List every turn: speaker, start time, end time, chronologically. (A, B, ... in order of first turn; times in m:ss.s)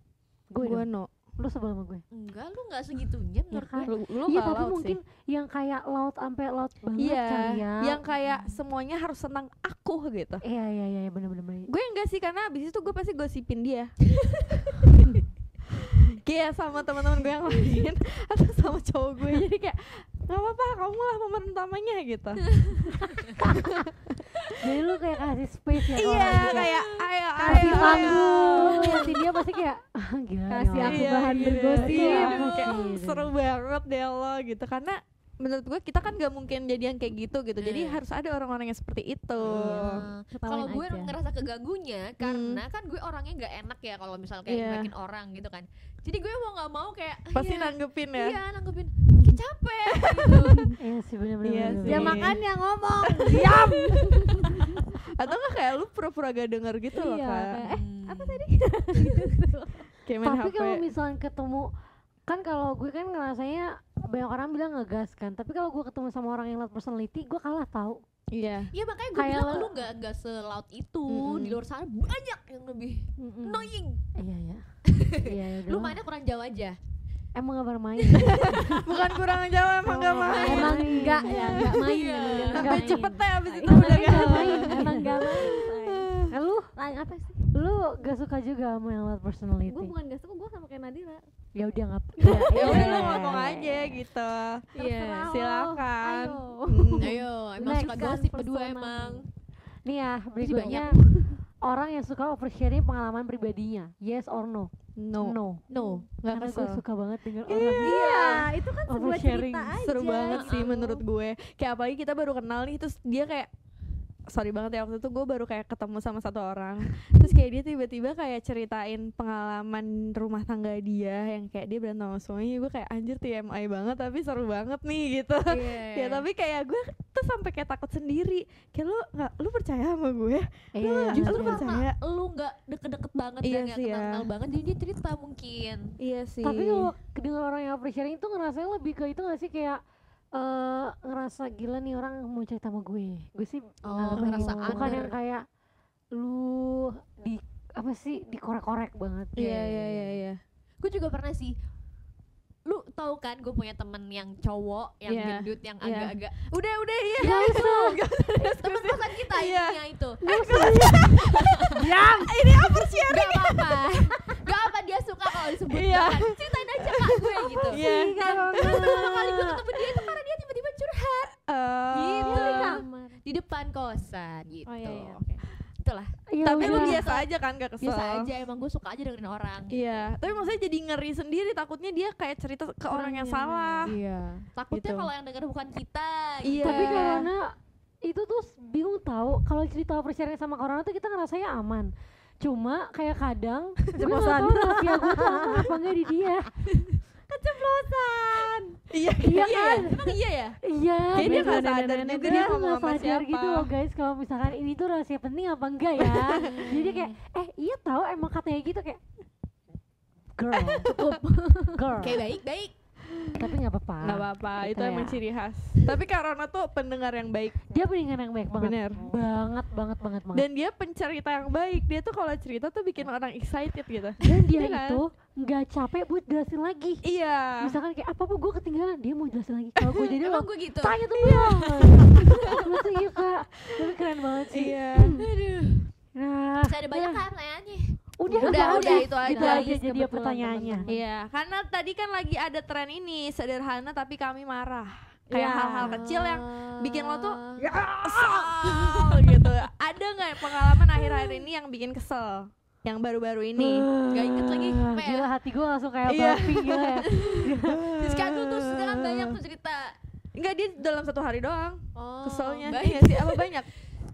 0:00.5-0:02.0 A
0:00.6-0:01.1 B
0:02.1-0:03.9 C
0:03.5-0:08.0 A
0:03.8-0:05.0 B
0:07.0-0:10.4 B
0:08.2-0:08.6 C
0:10.4-0:11.7 A
0:11.7-0:13.9 B
0:14.7-0:15.2 B
0:15.9-0:24.4 B
0:22.5-0:23.4 C
0:23.4-0:23.6 A
0:24.6-0:26.7 A
0:25.9-0:29.1 B
0:26.2-0:26.8 C
0:27.4-0:28.6 D
0:27.4-0:33.3 A
0:28.9-0:29.4 C
0:30.5-0:32.5 D
0:30.8-0:40.0 B
0:31.9-0:32.8 C
0:37.6-0:38.0 C
0:39.4-0:50.7 C
0:39.4-0:41.1 D
0:42.2-0:42.6 B
0:44.5-0:44.9 B
0:47.3-0:48.4 B
0:49.1-0:49.4 B
0:49.9-0:50.8 B
0:50.8-0:52.3 A
0:51.4-0:52.4 B
0:51.8-0:55.0 D
0:53.1-0:57.6 B
0:56.9-0:59.9 D
0:57.6-0:58.4 C
1:00.0-1:00.8 B
1:00.2-1:01.7 A
1:02.3-1:08.0 A
1:08.3-1:08.7 B
1:08.7-1:14.0 C
1:09.1-1:09.8 A
1:11.1-1:11.6 B
1:13.2-1:13.7 D
1:14.2-1:14.6 A
1:14.8-1:16.8 C
1:15.1-1:16.0 A
1:17.4-1:18.9 A
1:18.1-1:19.0 C
1:18.1-1:21.8 B
1:19.8-1:26.2 D
1:20.2-1:22.8 C
1:20.2-1:21.7 A
1:22.5-1:23.1 A
1:22.5-1:26.3 B
1:23.6-1:25.5 A
1:26.3-1:26.7 A
1:26.7-1:27.5 D
1:27.5-1:29.9 A
1:29.7-1:31.2 D
1:31.5-1:34.0 A
1:32.2-1:33.4 D
1:32.2-1:34.6 B
1:32.6-1:33.2 C
1:34.7-1:39.2 D
1:34.8-1:35.3 C
1:35.2-1:37.2 B
1:37.0-1:39.3 C
1:37.6-1:38.3 A
1:39.8-1:41.0 A
1:40.4-1:41.0 C
1:41.6-1:45.6 A
1:45.0-1:46.8 B
1:45.7-1:46.0 C
1:46.3-1:48.0 A
1:47.5-1:48.0 B
1:47.8-1:51.0 D
1:47.9-1:48.4 C
1:48.9-1:49.8 A
1:49.8-1:53.5 B
1:50.3-1:50.7 C
1:54.3-2:11.9 B
2:05.5-2:06.2 C
2:10.7-2:11.7 A
2:11.1-2:16.0 C
2:13.4-2:14.2 B
2:16.0-2:16.9 B
2:16.4-2:19.8 A
2:20.3-2:25.4 A
2:23.8-2:25.1 C
2:24.0-2:25.1 B
2:26.1-2:29.8 A
2:29.4-2:30.4 B
2:29.4-2:30.2 C
2:30.8-2:31.5 C
2:32.6-2:36.4 C
2:35.1-2:43.8 B
2:37.2-2:38.0 A
2:37.2-2:40.2 C
2:40.2-2:41.1 A
2:40.2-2:41.0 D
2:41.3-2:41.8 C
2:41.7-2:42.6 D
2:43.1-2:47.8 C
2:44.1-2:44.4 D
2:45.4-2:49.2 B
2:47.8-2:49.0 D
2:47.8-2:49.4 A
2:48.5-2:51.3 C
2:49.7-2:50.0 B
2:51.5-2:52.8 B
2:51.9-2:55.2 C
2:52.2-2:53.2 D
2:54.7-2:55.4 D
2:55.8-2:57.3 C
2:56.3-2:57.1 A
2:56.4-2:58.3 B
2:57.8-3:00.6 C
2:59.7-3:03.9 B
3:02.9-3:03.9 D
3:03.8-3:07.3 C
3:04.7-3:05.1 B
3:06.4-3:07.3 B
3:06.6-3:16.5 A
3:14.0-3:15.8 D
3:17.3-3:18.8 D
3:18.9-3:20.6 B
3:19.2-3:20.1 A
3:20.6-3:29.0 A
3:21.1-3:22.6 D
3:21.1-3:23.7 B
3:26.1-3:26.7 B
3:26.3-3:27.1 C
3:30.4-3:31.2 A
3:30.7-3:31.1 B
3:30.9-3:31.9 D
3:31.7-3:32.2 A
3:32.0-3:32.7 C
3:33.4-3:35.2 A
3:34.0-3:37.6 B
3:37.7-3:40.5 A
3:38.6-3:39.0 B
3:40.3-3:45.0 B
3:44.2-3:47.0 A
3:47.0-3:47.7 B
3:47.6-3:54.8 A
3:50.2-3:52.6 C
3:54.5-3:55.2 B
3:55.2-3:55.9 C
3:56.1-3:57.2 A
3:56.6-4:00.9 C
3:58.2-4:00.9 A
3:58.3-3:59.7 B
4:00.9-4:07.4 B
4:05.3-4:06.0 D
4:05.8-4:07.7 C
4:08.0-4:13.9 B
4:13.6-4:17.8 A
4:14.0-4:15.3 C
4:16.1-4:19.4 B
4:17.2-4:17.4 C
4:18.0-4:20.0 C
4:20.3-4:23.7 B
4:21.9-4:23.6 C